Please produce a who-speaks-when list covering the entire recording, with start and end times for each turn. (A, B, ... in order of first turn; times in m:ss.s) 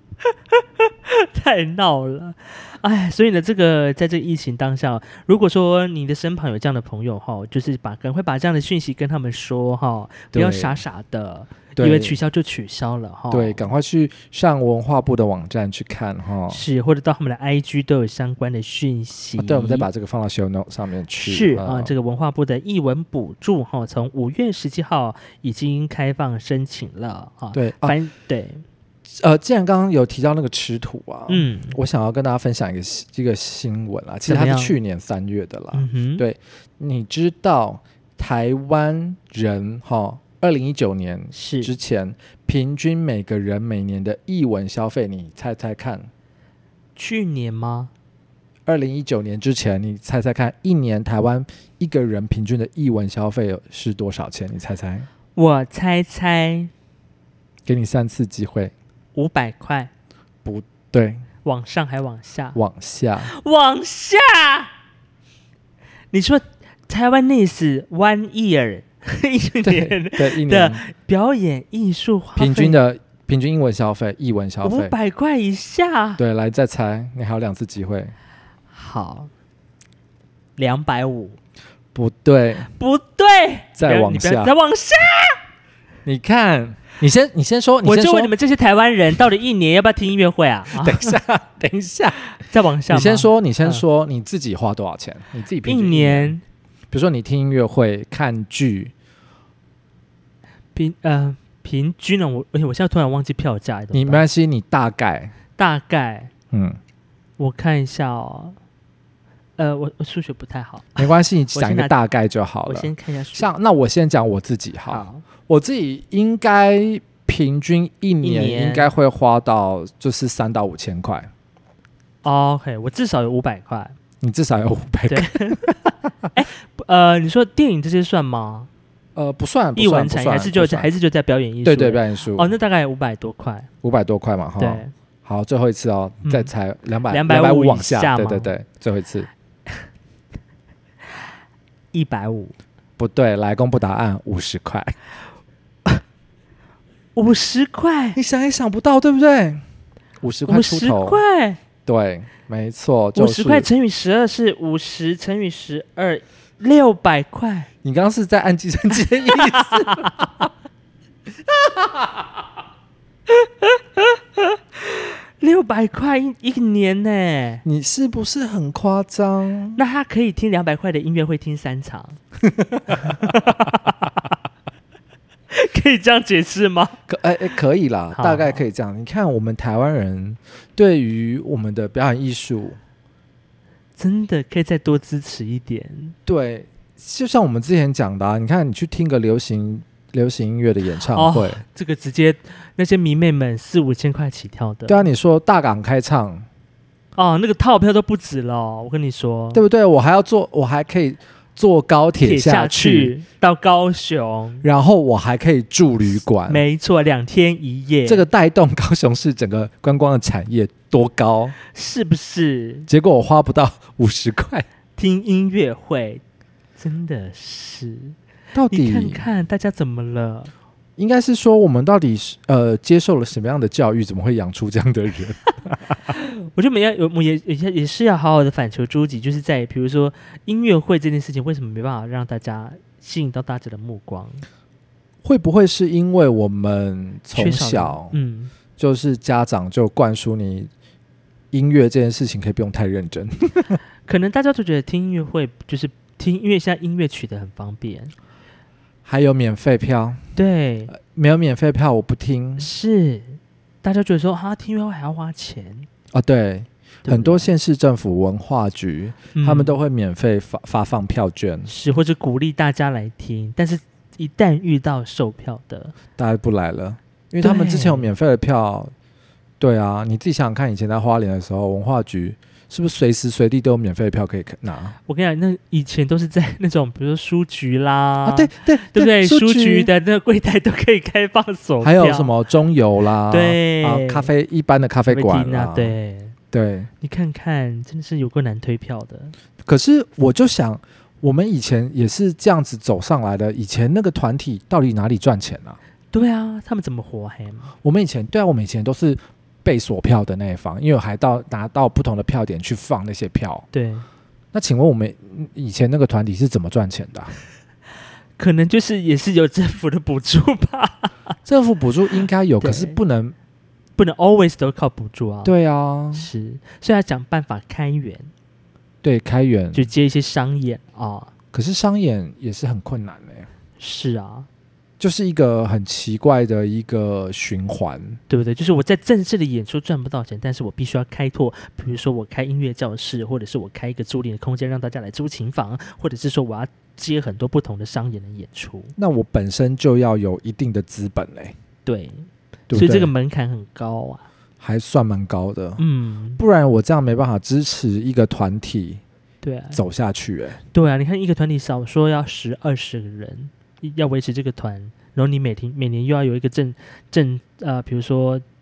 0:00.2-0:13.6 A
0:10.3-0:10.8 B
0:11.8-0:12.2 B
0:13.3-0:16.6 B
0:16.5-0:19.9 A
0:19.4-0:21.9 B
0:21.2-0:28.6 A
0:27.5-0:28.0 B
0:29.1-0:46.1 B
0:31.3-0:31.8 A
0:34.2-0:34.8 A
0:35.7-0:36.2 A
0:41.3-0:41.7 A
0:47.0-0:47.9 A
0:48.6-0:55.1 B
0:55.3-0:56.7 A
0:57.6-0:58.7 B
0:59.1-0:59.9 A
1:00.4-1:01.3 B
1:01.4-1:02.6 A
1:02.5-1:03.3 B
1:03.2-1:04.7 A
1:06.1-1:12.8 A
1:09.6-1:10.8 B
1:12.4-1:14.9 B
1:14.6-1:16.2 A
1:16.2-1:18.1 B
1:18.7-1:19.3 A
1:20.6-1:21.4 A
1:21.9-1:22.7 B
1:22.7-1:25.4 A
1:23.8-1:24.5 B
1:26.0-1:28.3 B
1:27.8-1:31.2 A
1:30.7-1:32.2 B
1:32.3-1:33.8 A
1:32.9-1:36.4 B
1:35.6-1:36.4 A
1:36.9-1:38.9 B
1:40.7-1:44.2 A
1:43.9-1:45.3 B
1:45.5-1:46.3 A
1:46.5-1:46.8 B
1:47.4-1:48.6 A
1:49.6-1:51.9 A
1:51.0-2:01.3 B
1:52.6-1:53.5 A
1:54.9-1:55.2 A
1:58.2-1:58.9 A
2:02.2-2:04.0 A
2:04.2-2:05.8 B
2:05.1-2:05.7 A
2:06.3-2:08.7 A
2:09.2-2:10.9 B
2:09.8-2:13.7 A
2:11.6-2:12.5 B
2:13.8-2:19.3 B
2:14.6-2:14.9 A
2:16.2-2:16.5 A
2:17.1-2:18.5 A
2:21.9-2:22.5 A
2:23.0-2:25.0 B
2:27.2-2:28.2 A
2:28.2-2:29.6 B
2:30.2-2:31.2 B
2:30.5-2:31.6 A
2:31.8-2:33.7 B
2:33.1-2:37.7 A
2:37.8-2:40.5 B
2:39.3-2:40.1 A
2:41.5-2:42.2 B
2:43.3-2:47.6 A
2:47.6-2:49.8 B
2:49.8-2:52.2 A
2:52.4-2:53.4 B
2:52.9-2:54.2 A
2:55.5-2:57.0 A
2:57.1-3:02.8 B
2:58.1-2:58.6 A
3:04.0-3:06.1 A
3:06.2-3:11.6 B
3:11.1-3:15.0 A
3:14.9-3:16.4 B
3:17.2-3:19.6 A
3:19.5-3:23.1 B
3:22.2-3:24.6 A
3:24.6-3:26.6 B
3:26.4-3:28.2 A
3:28.0-3:31.5 B
3:31.7-3:32.9 A
3:32.9-3:34.6 B
3:35.0-3:36.2 A
3:36.8-3:38.2 A
3:38.5-3:39.2 B
3:38.7-3:40.5 A
3:41.0-3:46.0 B
3:46.1-3:54.4 A
3:55.2-3:58.1 B
3:57.3-3:58.5 A
3:58.8-4:00.7 B
4:01.5-4:03.8 B
4:04.0-4:08.1 A
4:09.0-4:10.2 B
4:10.4-4:10.9 A
4:10.9-4:12.7 B
4:12.6-4:15.9 A
4:16.1-4:21.7 B
4:17.0-4:17.5 A
4:19.3-4:19.8 A
4:21.7-4:25.9 A
4:26.2-4:28.9 B
4:27.4-4:28.1 A
4:29.6-4:35.0 B
4:35.1-4:42.3 A
4:38.2-4:39.9 B
4:41.8-4:45.9 B
4:43.3-4:44.3 A
4:45.1-4:46.4 A
4:46.5-4:46.9 B
4:47.0-4:49.3 A
4:49.6-4:55.8 B
4:56.1-4:57.7 A
4:57.8-5:03.7 B
5:03.7-5:04.0 A
5:04.5-5:07.3 B
5:08.4-5:11.3 A
5:11.4-5:13.3 B
5:12.6-5:13.0 A
5:14.0-5:15.5 A
5:15.4-5:16.3 B
5:16.1-5:18.3 A
5:19.0-5:19.9 B
5:19.7-5:21.3 A
5:21.5-5:23.5 B
5:23.8-5:24.5 A
5:25.0-5:28.2 B
5:28.3-5:38.9 A
5:39.0-5:41.5 B
5:41.8-5:44.2 A
5:42.7-5:43.1 B
5:44.6-5:45.8 B
5:45.8-5:46.4 A
5:46.4-5:49.0 B
5:49.4-5:49.8 A
5:49.7-5:50.6 B
5:50.7-5:58.4 A